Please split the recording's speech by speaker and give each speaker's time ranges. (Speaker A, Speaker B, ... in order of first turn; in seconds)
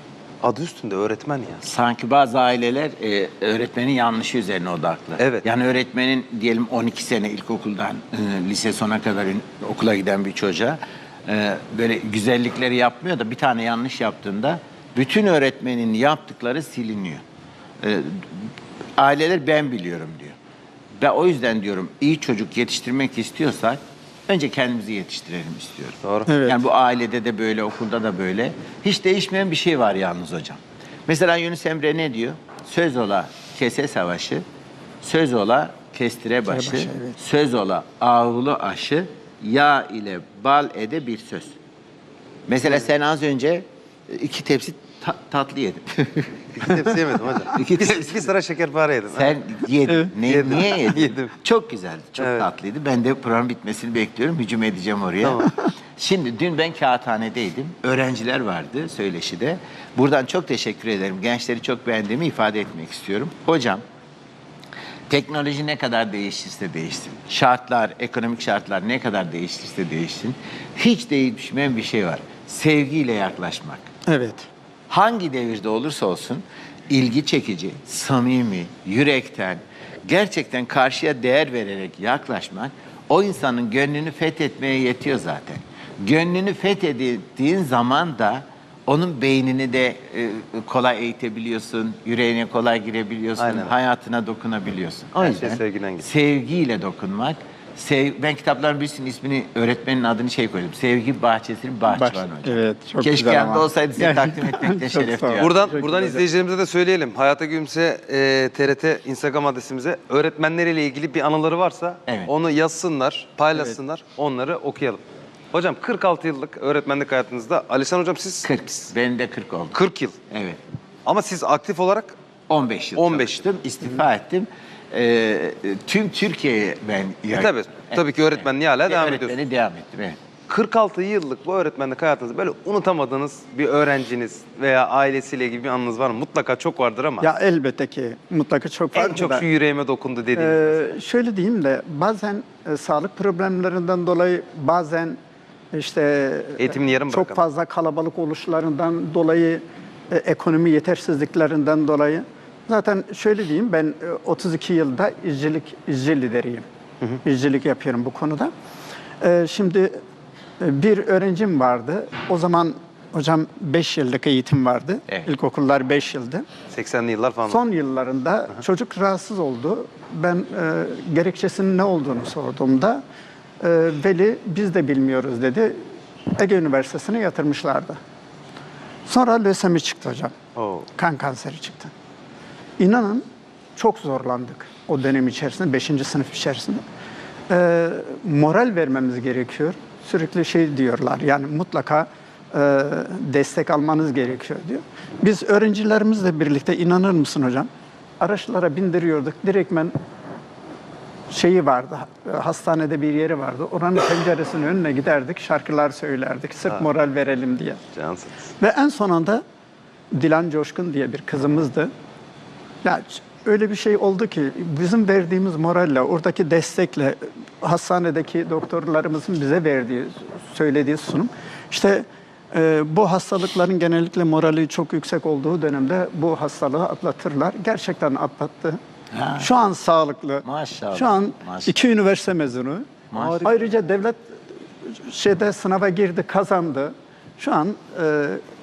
Speaker A: 0.4-1.6, 5.2-5.5, 26.0-26.3, 46.6-49.4, 50.3-51.3, 52.2-52.5, 55.2-55.5, 93.4-93.7, 95.2-96.1, 105.4-115.0, 115.5-118.5, 119.7-120.2, 121.1-122.2, 123.0-123.4, 127.3-129.4, 130.5-137.3, 138.9-140.9, 146.6-147.4, 166.7-167.6, 180.6-180.9, 207.9-208.5, 233.2-233.5
Speaker B: 1.6-17.2, 17.8-20.4, 21.0-34.4, 35.0-41.6, 42.5-46.9, 47.5-48.3, 49.1-63.8, 65.1-73.9, 74.9-105.6, 118.5-119.8, 120.3-120.6, 122.5-128.1, 128.9-130.2, 165.1-165.3, 229.1-229.5, 230.4-231.8, 233.1-233.5
Speaker C: 26.3-26.7, 36.5-37.2, 49.9-50.1, 74.1-74.5, 101.9-106.2, 137.2-139.5, 140.3-145.2, 145.7-156.7, 157.2-158.5, 159.2-160.0, 160.6-166.4, 167.5-173.0, 173.6-175.8, 176.4-178.0, 179.1-180.3, 181.0-181.9, 182.8-183.2, 183.8-186.8, 187.5-197.7, 198.2-199.9, 201.3-207.8, 208.6-209.4, 210.1-211.9, 212.8-228.8, 229.4-238.4